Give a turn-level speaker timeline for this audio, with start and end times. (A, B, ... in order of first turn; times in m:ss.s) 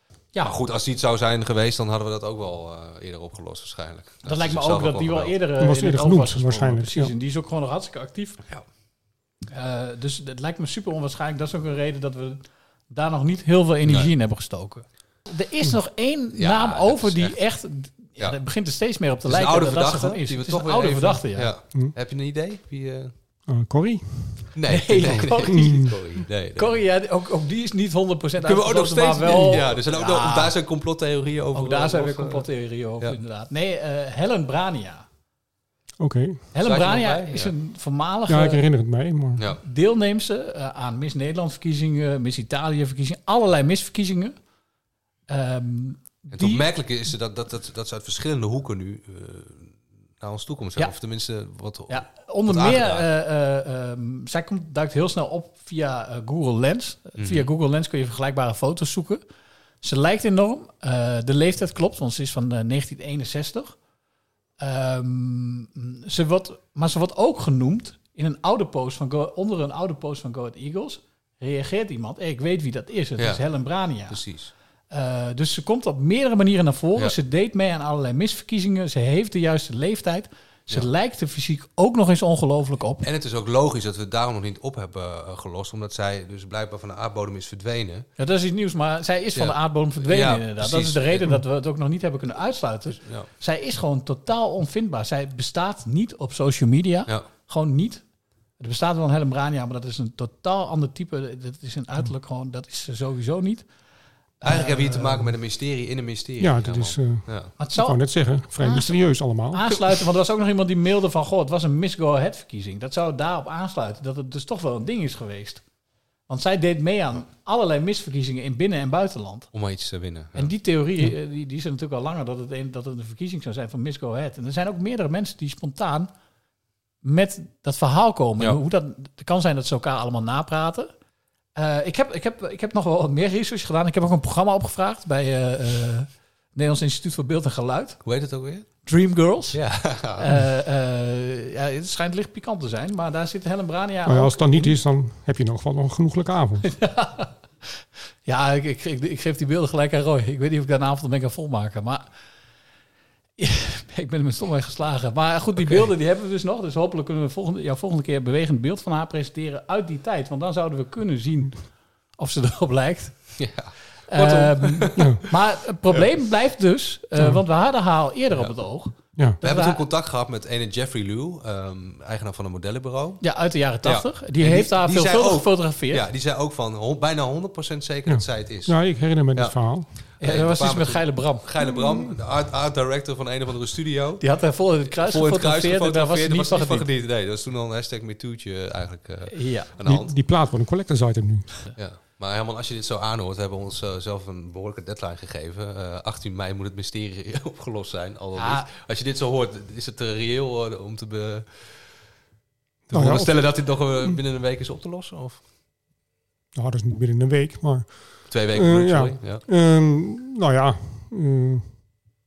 0:00.4-0:05.4 A
0:04.2-0:08.4 B
0:05.6-0:07.1 C
0:09.5-0:21.5 B
0:13.9-0:14.1 A
0:16.3-0:17.4 A
0:19.2-0:23.1 A
0:23.5-0:24.5 C
0:24.5-0:26.8 A
0:24.7-0:26.0 B
0:25.5-0:25.9 C
0:26.6-0:30.6 B
0:28.4-0:32.4 A
0:31.5-0:35.1 B
0:36.0-0:36.5 C
0:36.5-0:38.6 B
0:36.6-0:37.5 A
0:38.3-0:39.4 C
0:39.6-0:44.4 B
0:45.3-0:46.7 B
0:46.3-0:53.1 A
0:51.9-0:59.2 B
0:57.2-0:57.5 A
0:59.8-1:03.8 B
1:04.6-1:14.2 B
1:13.2-1:13.4 A
1:14.1-1:14.5 A
1:14.9-1:23.0 B
1:23.0-1:28.1 A
1:28.2-1:38.0 B
1:29.4-1:31.4 A
1:33.0-1:33.3 A
1:38.6-1:43.7 B
1:44.4-1:45.3 B
1:44.4-1:47.6 A
1:46.4-1:49.7 C
1:47.6-1:48.0 B
1:48.6-1:55.6 B
1:56.3-1:59.5 B
1:59.5-2:00.5 A
2:00.4-2:06.1 B
2:07.0-2:10.9 B
2:11.6-2:18.0 B
2:18.0-2:18.7 A
2:18.9-2:19.7 B
2:19.5-2:20.4 A
2:20.2-2:24.8 B
2:24.0-2:26.7 C
2:26.6-2:32.1 B
2:33.4-2:43.4 B
2:43.4-2:45.1 A
2:44.1-2:49.8 B
2:47.1-2:47.4 C
2:49.1-2:49.4 C
2:49.4-2:53.2 A
2:53.2-2:56.0 B
2:53.8-3:04.3 A
2:58.1-3:00.0 C
3:00.2-3:01.5 B
3:01.6-3:02.2 C
3:04.2-3:06.9 B
3:04.9-3:10.1 A
3:09.3-3:09.7 B
3:09.8-3:11.6 C
3:11.8-3:21.9 A
3:18.4-3:18.7 B
3:22.9-3:25.4 A
3:22.9-3:24.2 C
3:26.5-3:31.7 C
3:28.3-3:29.4 A